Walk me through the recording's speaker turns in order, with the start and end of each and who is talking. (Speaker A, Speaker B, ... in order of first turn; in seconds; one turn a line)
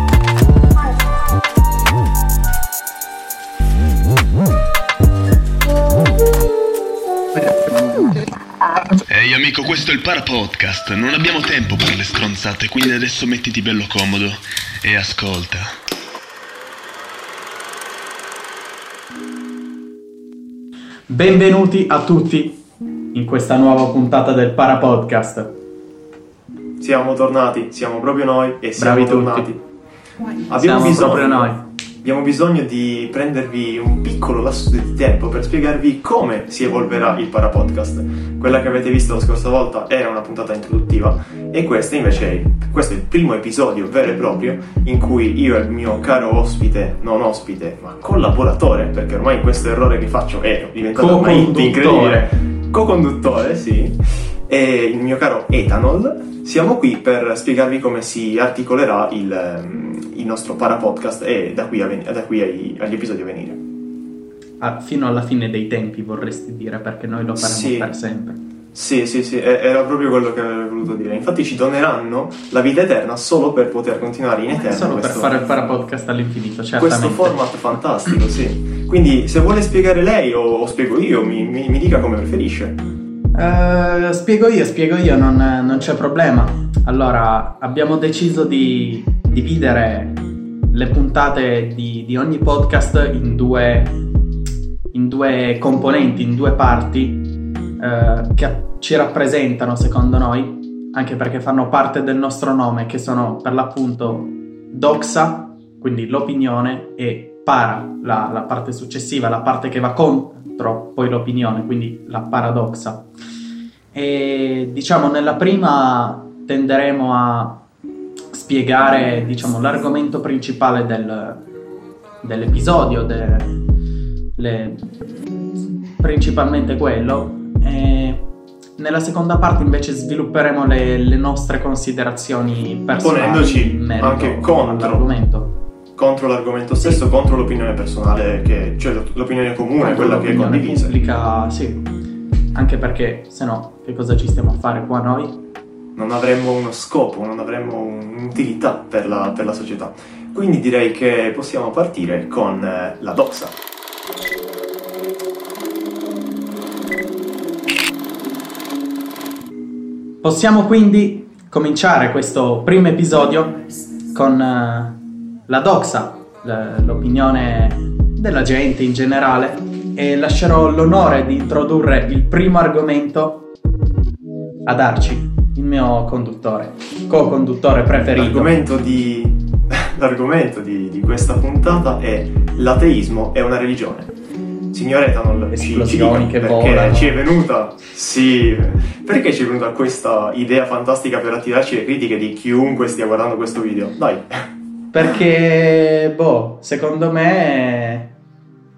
Speaker A: 9.1-15.7
Speaker B: 21.1-22.6
Speaker B: 23.1-25.5
Speaker C: 26.8-29.6
Speaker B: 28.8-29.5
Speaker C: 30.5-63.6
Speaker B: 30.5-31.6
Speaker B: 50.9-52.3
Speaker B: 64.6-68.4
Speaker C: 67.4-67.9
Speaker C: 68.7-75.3
Speaker B: 74.6-77.4
Speaker C: 76.8-82.8
Speaker B: 83.3-90.2
Speaker B: 90.7-94.0
Speaker B: 94.9-97.3
Speaker B: 97.8-113.0
Speaker B: 113.9-117.6
Speaker B: 118.3-121.4
Speaker B: 122.2-123.5
Speaker B: 124.3-124.9
Speaker B: 126.0-128.2
Speaker B: 128.8-135.5
Speaker C: 133.0-135.1
Speaker C: 136.0-140.9
Speaker B: 139.8-141.8
Speaker B: 142.5-145.4
Speaker C: 145.9-153.6
Speaker B: 160.2-173.5
Speaker B: 174.7-178.5
Speaker C: 178.2-184.2
Speaker C: 184.7-194.5
Speaker B: 185.5-187.2
Speaker B: 194.9-198.1